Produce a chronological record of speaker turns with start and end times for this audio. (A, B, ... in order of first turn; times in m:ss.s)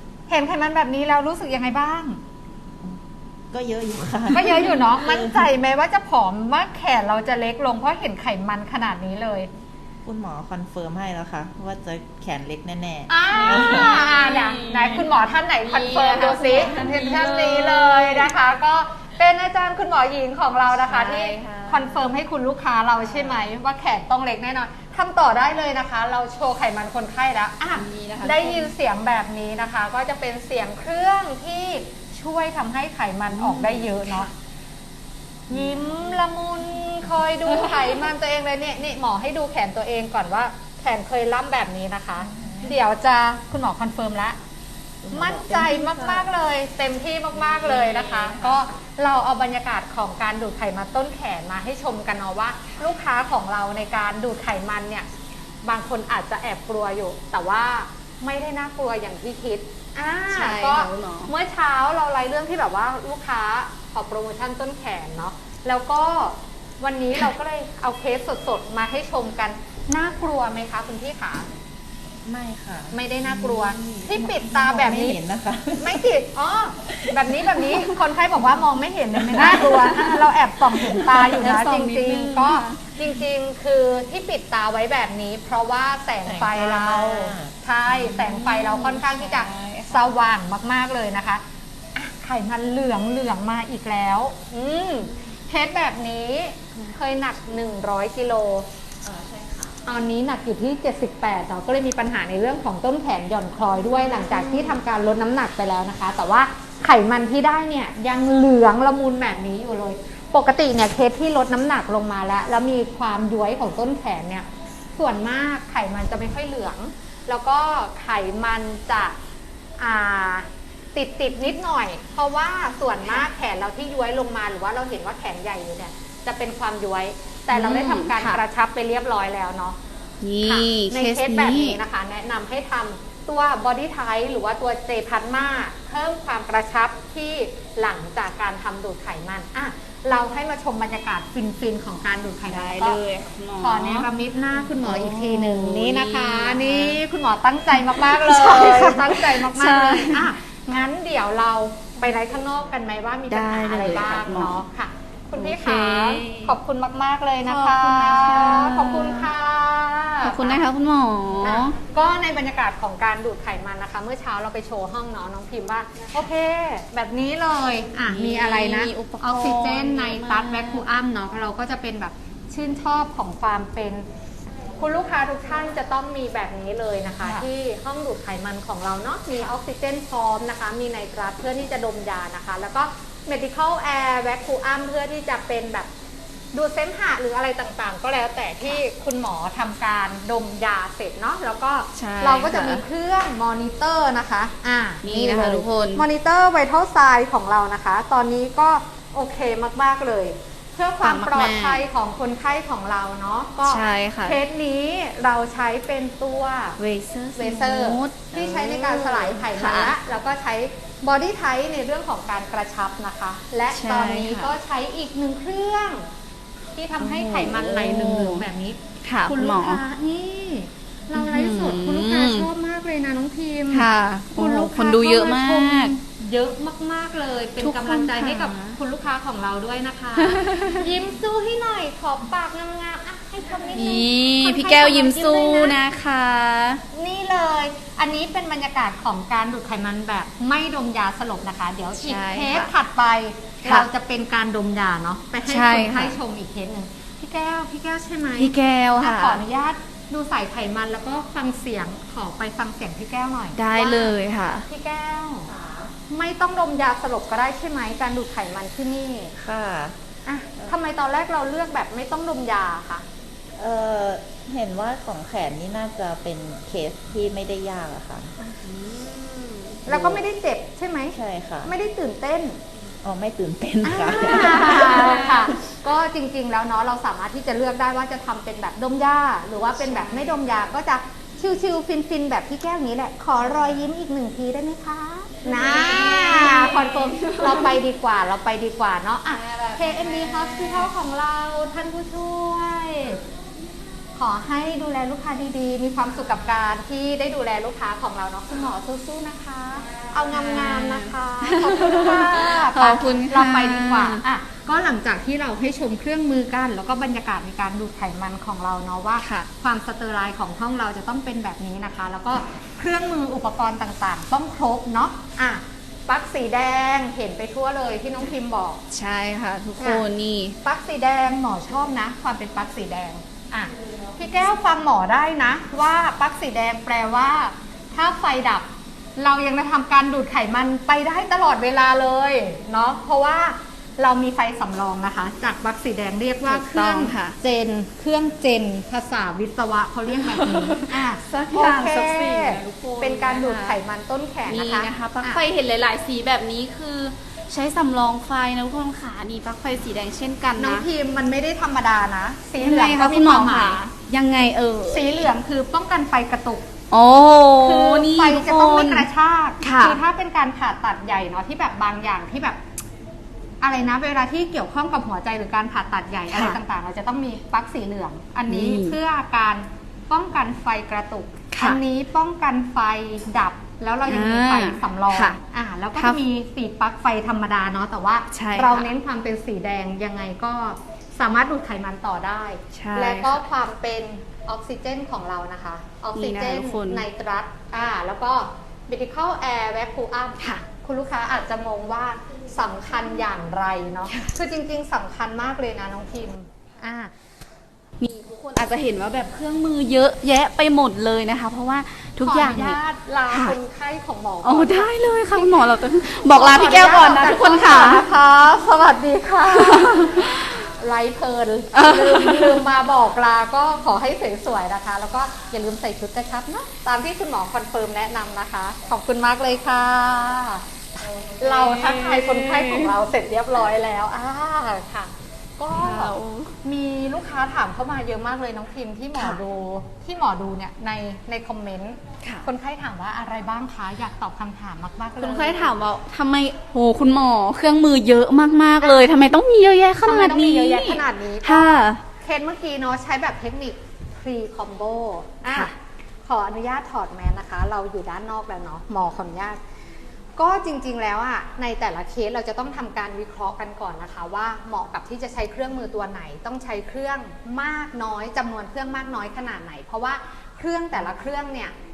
0:00.3-0:02.2 A
0:02.8-0:05.5 B
0:04.3-0:09.5 A
0:10.0-0:14.1 B
0:13.1-0:34.3 A
0:13.3-0:15.1 C
0:15.6-0:18.3 C
0:20.7-0:22.0 C
0:23.0-0:23.4 C
0:27.8-0:28.7 C
0:33.3-0:34.3 C
0:35.5-0:44.4 A
0:45.0-0:46.3 B
0:45.1-0:55.1 A
0:47.6-0:48.6 C
0:55.6-1:11.5 A
1:00.3-1:01.3 C
1:12.2-1:16.1 B
1:12.9-1:15.2 A
1:15.8-1:31.4 A
1:16.9-1:17.9 B
1:19.2-1:19.8 B
1:19.4-1:20.2 C
1:20.9-1:23.1 C
1:26.2-1:27.6 B
1:27.9-1:30.1 C
1:32.0-1:38.7 A
1:39.0-1:39.8 B
1:39.8-1:59.2 A
1:59.8-2:09.8 A
2:07.5-2:08.4 C
2:10.2-2:11.8 C
2:10.4-2:23.0 A
2:22.5-2:24.1 C
2:23.6-2:40.6 A
2:24.6-2:27.0 C
2:27.8-2:30.3 C
2:33.3-2:34.5 C
2:35.4-2:36.6 C
2:37.4-2:39.3 C
2:40.2-2:41.8 C
2:41.4-2:54.1 A
2:48.1-2:50.9 C
2:54.8-3:05.9 A
3:06.5-3:26.8 A
3:12.0-3:12.8 C
3:15.0-3:16.0 C
3:21.0-3:21.8 C
3:23.6-3:24.4 C
3:26.8-3:29.9 C
3:27.4-3:36.1 A
3:33.7-3:34.5 C
3:36.8-3:55.8 A
3:37.0-3:38.4 C
3:39.0-3:39.8 C
3:41.1-3:42.5 C
3:43.7-3:45.9 C
3:47.6-3:48.8 C
3:50.2-3:50.9 C
3:53.8-3:56.8 C
3:56.9-4:15.5 A
4:02.0-4:02.7 C
4:05.5-4:06.2 C
4:08.4-4:09.4 C
4:13.6-4:14.7 C
4:15.4-4:15.9 B
4:16.1-4:19.3 A
4:19.4-4:20.0 B
4:20.2-4:23.0 A
4:23.6-4:28.3 B
4:28.5-4:29.8 C
4:29.9-4:30.2 B
4:29.9-4:32.6 A
4:31.1-4:31.7 B
4:33.0-4:35.3 B
4:33.8-4:53.2 A
4:34.5-4:35.4 C
4:39.8-4:40.4 C
4:45.4-4:47.8 C
4:49.3-4:50.9 C
4:54.2-5:18.8 A
4:59.9-5:04.2 C
5:09.2-5:09.5 C
5:18.9-5:20.6 C
5:19.8-5:20.1 A
5:20.6-5:45.4 A
5:36.5-5:37.4 C
5:40.1-5:43.8 C
5:44.5-5:50.9 C
5:50.6-5:53.8 A
5:52.6-5:55.2 C
5:54.9-5:56.7 A
5:56.9-5:59.1 C
5:57.6-6:02.6 A
5:59.6-6:00.0 C
6:03.6-6:37.1 A
6:06.3-6:06.6 C
6:08.5-6:09.0 C
6:11.5-6:11.8 C
6:14.1-6:15.4 C
6:18.3-6:18.9 C
6:22.7-6:23.4 C
6:26.2-6:27.0 C
6:38.0-6:42.8 C
6:42.2-6:45.5 A
6:43.3-6:43.6 C
6:44.4-6:48.0 C
6:46.3-7:15.8 A
6:49.6-6:50.5 C
6:51.7-6:52.7 C
7:01.0-7:03.0 C
7:05.7-7:06.5 C
7:09.2-7:09.4 C
7:15.2-7:22.0 C
7:18.8-7:19.1 A
7:20.0-7:25.7 A
7:25.4-7:25.7 C
7:26.2-7:29.6 A
7:30.4-7:41.7 A